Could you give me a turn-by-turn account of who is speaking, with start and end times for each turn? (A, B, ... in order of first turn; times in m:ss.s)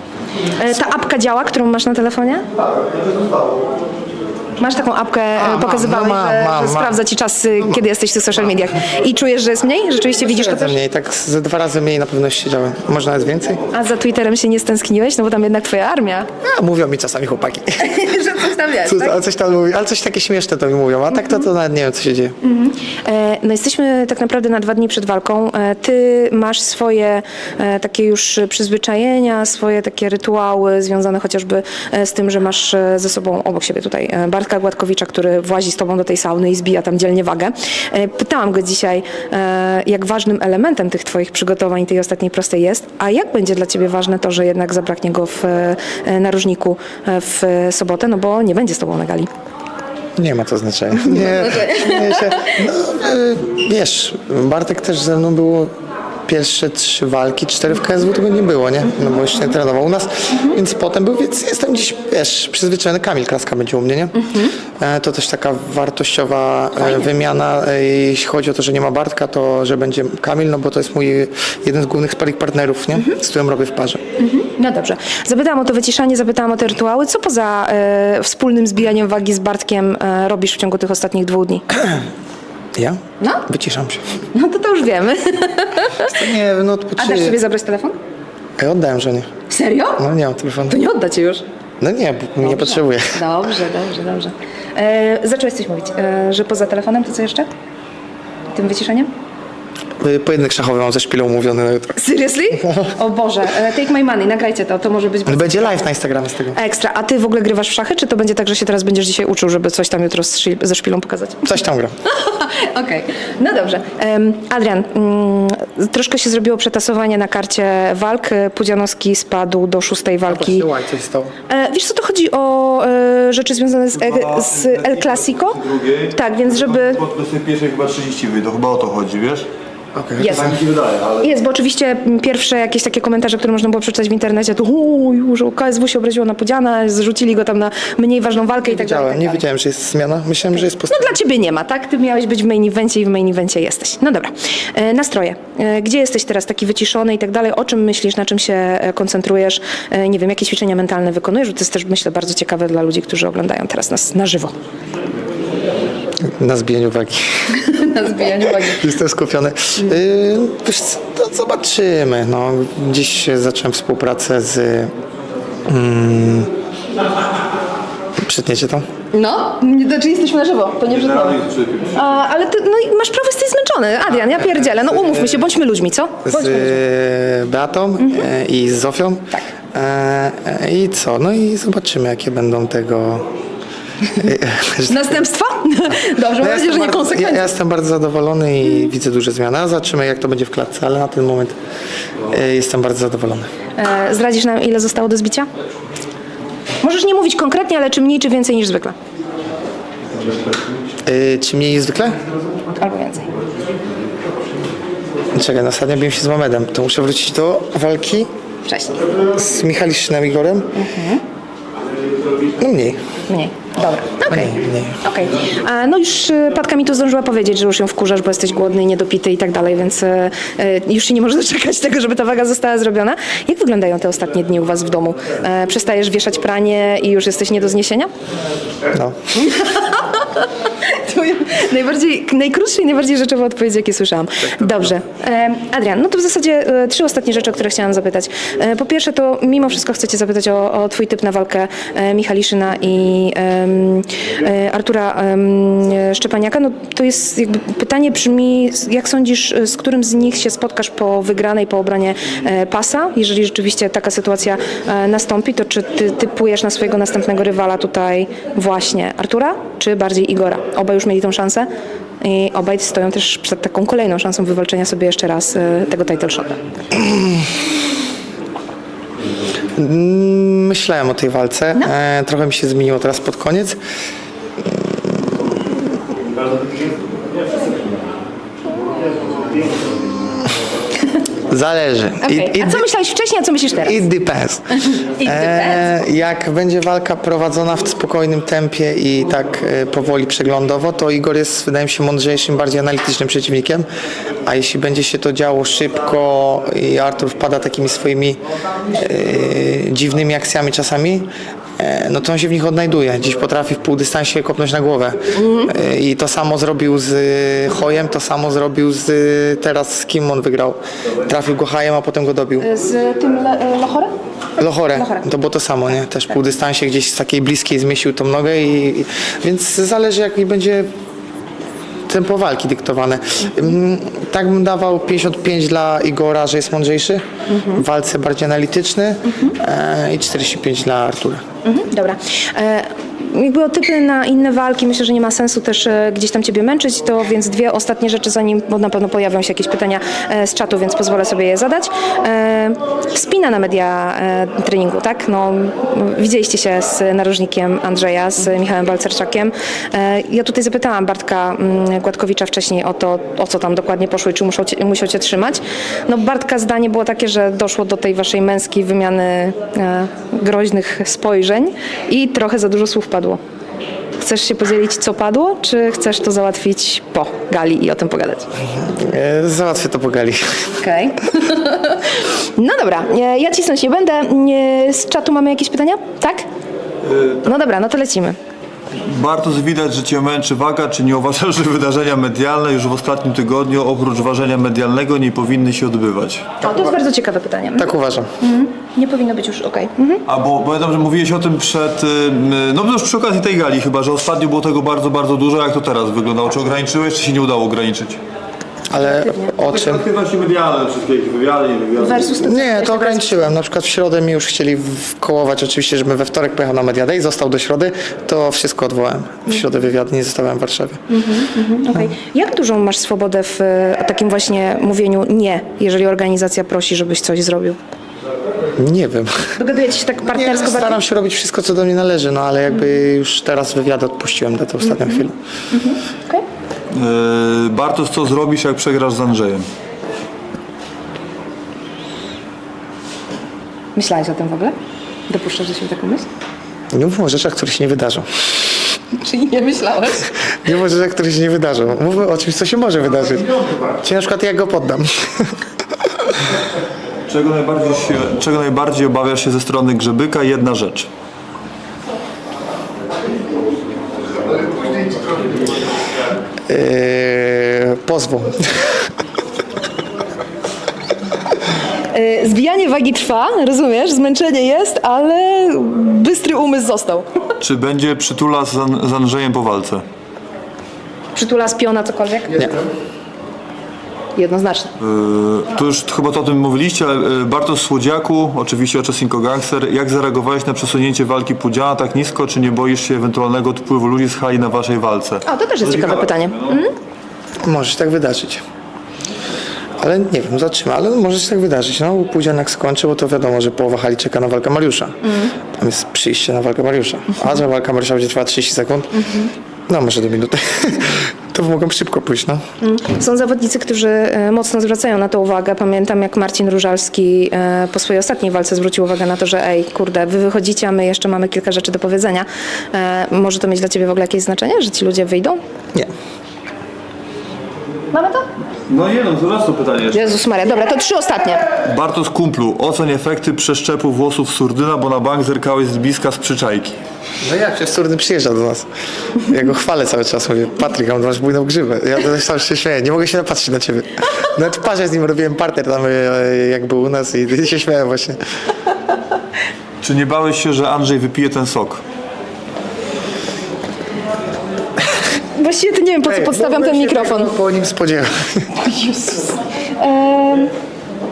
0:00.5-0:02.5 A
0:04.6-0:10.8 A
0:05.4-0:07.0 B
0:10.2-0:13.6 B
0:13.7-0:16.3 A
0:16.4-0:18.0 B
0:17.8-0:19.2 A
0:18.6-0:22.4 B
0:22.4-0:49.3 A
0:50.2-0:55.7 B
0:51.0-0:52.6 A
0:56.3-1:14.0 B
1:04.2-1:04.5 A
1:14.2-1:21.7 A
1:22.8-1:24.0 B
1:24.3-1:26.2 A
1:26.0-1:27.4 B
1:27.0-1:28.0 A
1:28.6-1:29.3 B
1:29.5-1:30.0 A
1:30.0-1:30.8 B
1:30.7-1:31.4 A
1:31.8-1:33.2 B
1:32.4-1:37.5 A
1:38.5-1:39.1 A
1:40.0-1:42.0 B
1:42.0-1:45.7 A
1:42.5-1:42.9 B
1:45.3-1:46.6 B
1:46.5-1:51.5 A
1:51.4-1:51.9 B
1:52.1-2:00.7 A
2:00.3-2:01.3 B
2:01.5-2:07.0 A
2:04.0-2:09.5 C
2:10.0-2:10.6 B
2:10.2-2:10.5 A
2:10.3-2:11.3 C
2:11.2-2:19.4 A
2:18.6-2:21.1 B
2:20.8-2:34.6 A
2:36.3-2:37.5 B
2:37.5-2:38.9 A
2:38.3-2:44.9 B
2:45.7-2:46.5 B
2:48.2-2:48.8 B
2:49.1-2:51.4 A
2:50.8-2:52.0 C
2:51.9-2:56.8 A
2:56.2-3:03.3 B
2:58.0-2:58.3 A
3:04.1-3:05.2 B
3:04.9-3:07.5 A
3:06.4-3:11.6 B
3:12.3-3:13.5 B
3:13.8-3:15.5 A
3:16.8-3:19.0 A
3:21.0-3:22.2 B
3:22.7-3:23.3 A
3:25.3-3:28.3 B
3:28.7-3:29.0 A
3:29.3-3:30.7 B
3:30.8-3:31.2 A
3:32.6-3:33.0 B
3:33.3-3:48.1 A
3:34.3-3:35.0 B
3:49.4-4:21.7 A
4:22.2-4:26.6 A
4:27.0-4:27.4 B
4:29.8-4:33.8 B
4:41.5-4:42.9 B
4:42.2-4:44.0 A
4:43.8-4:53.8 B
4:44.9-4:45.9 A
4:54.4-5:12.7 B
5:05.4-5:05.7 A
5:12.6-5:14.1 A
5:14.6-5:20.9 B
5:14.9-5:15.2 A
5:22.1-5:31.4 B
5:27.5-5:27.8 A
5:31.6-6:03.4 A
6:04.2-6:08.5 A
6:08.7-6:10.7 B
6:10.8-6:16.5 A
6:17.0-6:17.4 C
6:17.4-6:18.4 A
6:19.0-6:26.5 C
6:26.6-6:27.9 A
6:27.8-6:28.3 B
6:28.4-6:30.2 A
6:30.3-6:38.2 C
6:38.9-6:40.0 B
6:39.0-6:39.6 A
6:39.6-6:42.3 C
6:42.0-6:43.4 A
6:42.4-6:51.0 B
6:51.1-6:57.8 A
6:58.8-6:59.6 B
6:59.6-7:01.0 A
7:00.3-7:05.4 B
7:04.8-7:06.4 A
7:06.9-7:09.7 C
7:14.0-7:14.8 A
7:15.3-7:16.3 A
7:16.9-7:18.5 B
7:19.1-7:20.4 A
7:20.6-7:25.6 B
7:27.3-7:31.1 C
7:36.7-7:38.9 B
7:42.1-7:47.3 A
7:47.6-7:50.0 C
7:51.4-7:52.8 A
7:54.4-7:54.9 A
7:55.0-8:06.8 C
8:05.4-8:07.0 A
8:07.6-8:08.6 B
8:10.0-8:22.6 B
8:15.2-8:15.5 A
8:19.2-8:19.5 A
8:22.8-8:35.6 A
8:38.1-8:38.5 A
8:38.9-8:40.3 C
8:40.1-8:41.7 A
8:41.8-8:47.0 C
8:47.4-8:48.9 B
8:49.4-8:58.4 B
9:00.0-9:02.0 C
9:05.6-9:07.5 A
9:06.2-9:08.8 B
9:08.8-9:10.7 A